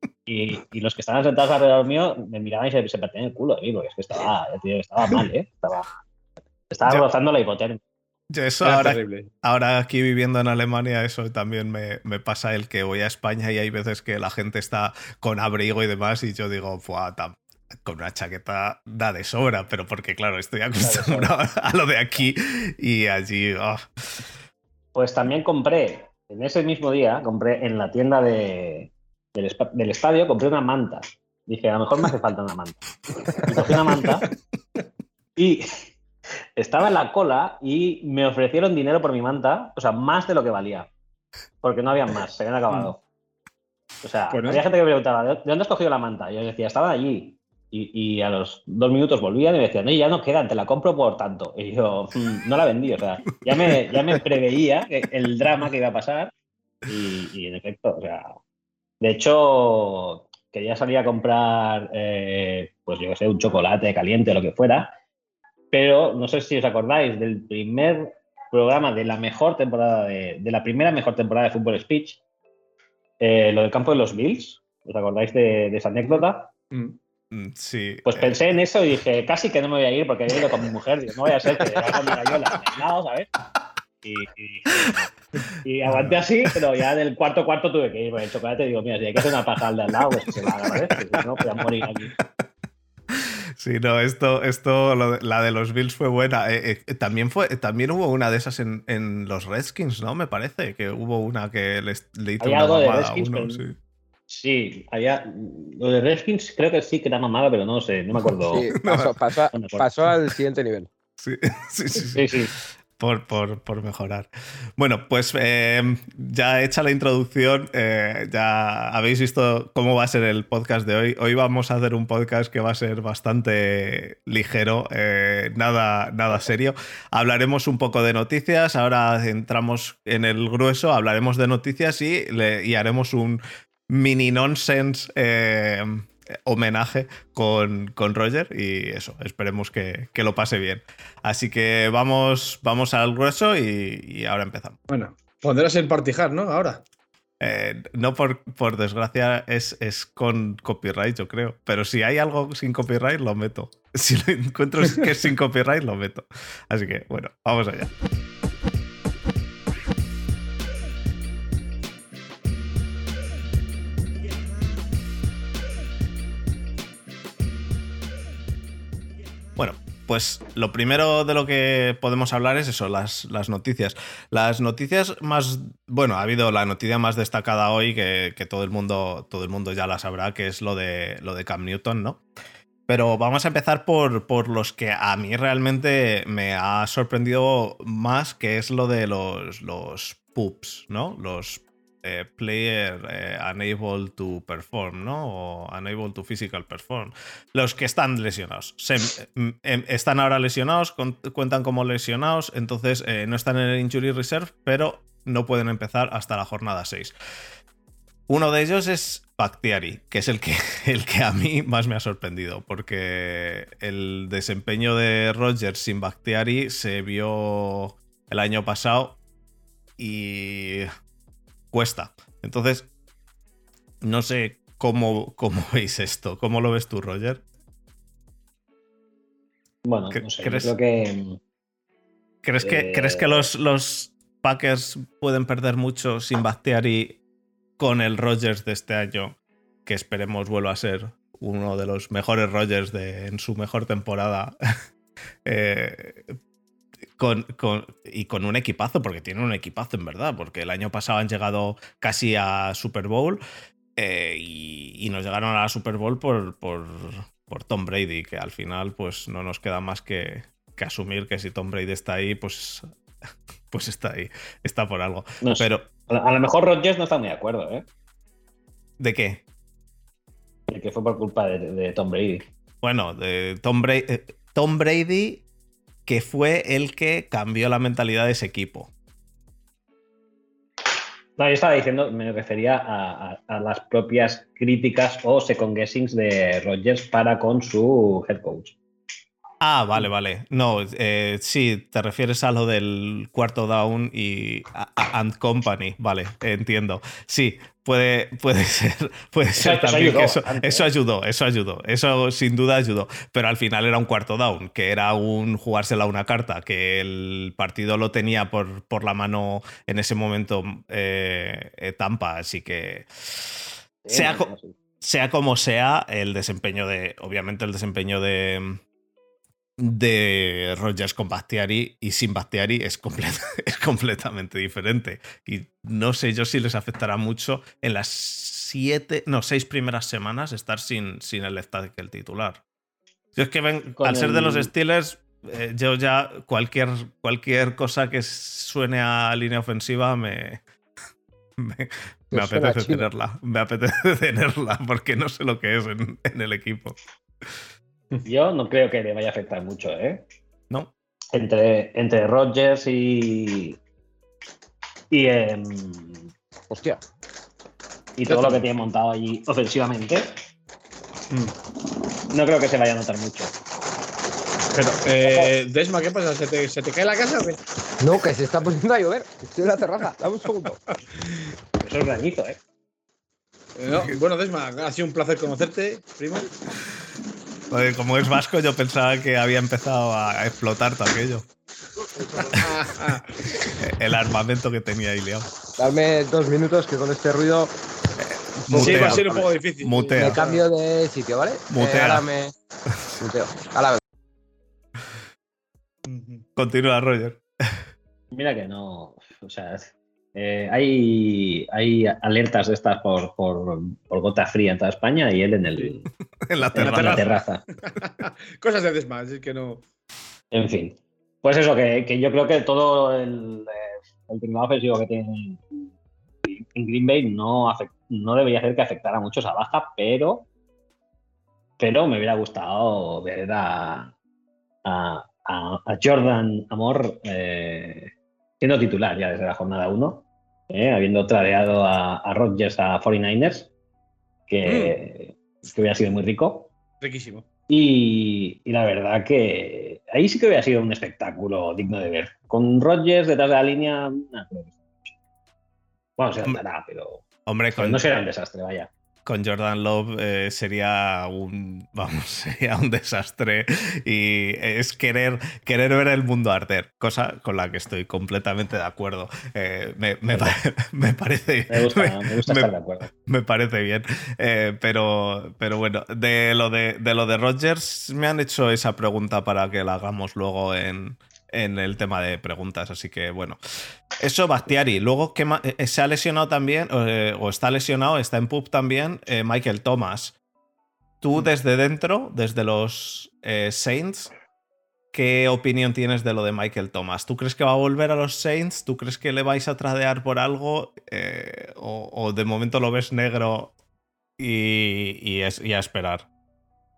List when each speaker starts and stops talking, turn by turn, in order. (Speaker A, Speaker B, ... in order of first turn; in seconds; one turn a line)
Speaker A: 0.3-5.9
Speaker A: 6.7-7.8
Speaker B: 8.3-24.2
Speaker C: 8.6-9.3
Speaker A: 20.8-21.3
Speaker A: 24.9-34.3
Speaker A: 35.4-35.8
Speaker A: 36.6-40.9
Speaker A: 41.6-43.0
Speaker A: 44.0-56.3
Speaker C: 44.3-44.6
Speaker A: 56.9-58.4
Speaker A: 59.0-64.9
Speaker A: 65.7-72.2
Speaker A: 73.2-76.5
Speaker C: 76.7-77.0
Speaker B: 77.3-78.4
Speaker A: 78.1-83.3
Speaker A: 84.0-85.1
Speaker A: 85.6-92.2
Speaker B: 85.9-86.5
Speaker B: 92.2-92.5
Speaker B: 93.1-103.8
Speaker A: 102.4-103.6
Speaker A: 104.3-108.7
Speaker D: 108.5-110.9
Speaker B: 108.8-109.2
Speaker A: 109.5-109.9
Speaker B: 111.2-144.8
Speaker A: 112.1-112.5
Speaker C: 144.9-146.8
Speaker B: 147.4-157.9
Speaker B: 169.6-182.2
Speaker B: 182.9-207.1
Speaker B: 208.3-219.2
Speaker B: 220.0-220.9
Speaker B: 221.7-222.9
Speaker B: 224.0-227.4
Speaker A: 229.8-231.4
Speaker B: 230.1-230.7
Speaker B: 232.4-237.2
Speaker A: 232.6-233.5
Speaker B: 237.8-244.5
Speaker B: 245.4-246.4
Speaker B: 247.2-253.4
Speaker B: 254.0-262.9
Speaker B: 263.7-265.9
Speaker A: 265.4-267.9
Speaker B: 269.0-269.4
Speaker A: 270.7-272.5
Speaker B: 272.8-275.4
Speaker B: 276.1-278.9
Speaker A: 281.4-288.8
Speaker B: 289.6-314.5
Speaker A: 299.6-300.9
Speaker A: 314.1-314.8
Speaker B: 315.0-318.8
Speaker B: 319.8-332.6
Speaker B: 333.4-340.6
Speaker A: 334.0-334.7
Speaker B: 341.6-347.6
Speaker D: 342.3-343.1
Speaker A: 348.2-350.2
Speaker A: 351.3-353.8
Speaker A: 355.1-356.3
Speaker D: 356.7-357.0
Speaker A: 358.2-360.4
Speaker A: 362.3-363.5
Speaker A: 364.7-365.5
Speaker C: 365.1-367.6
Speaker D: 368.0-370.8
Speaker A: 371.8-372.6
Speaker C: 373.8-376.5
Speaker B: 377.7-381.4
Speaker C: 382.4-383.3
Speaker B: 383.8-385.5
Speaker D: 385.8-387.7
Speaker B: 388.2-389.3
Speaker D: 388.7-389.5
Speaker C: 388.7-390.7
Speaker B: 389.8-390.4
Speaker D: 390.2-392.5
Speaker B: 391.7-392.2
Speaker D: 393.2-394.0
Speaker C: 396.1-396.4
Speaker B: 396.6-397.8
Speaker A: 398.3-407.6
Speaker B: 406.4-407.3
Speaker C: 406.8-409.8
Speaker A: 410.5-415.9
Speaker A: 416.4-420.5
Speaker A: 421.8-424.1
Speaker A: 424.9-433.7
Speaker A: 434.5-436.7
Speaker C: 434.7-434.9
Speaker C: 437.0-437.5
Speaker A: 437.7-445.1
Speaker A: 446.2-447.2
Speaker B: 447.5-448.0
Speaker A: 447.8-448.9
Speaker B: 449.2-473.6
Speaker A: 461.7-463.1
Speaker B: 474.2-480.4
Speaker B: 481.2-484.3
Speaker B: 485.1-493.7
Speaker B: 494.4-496.3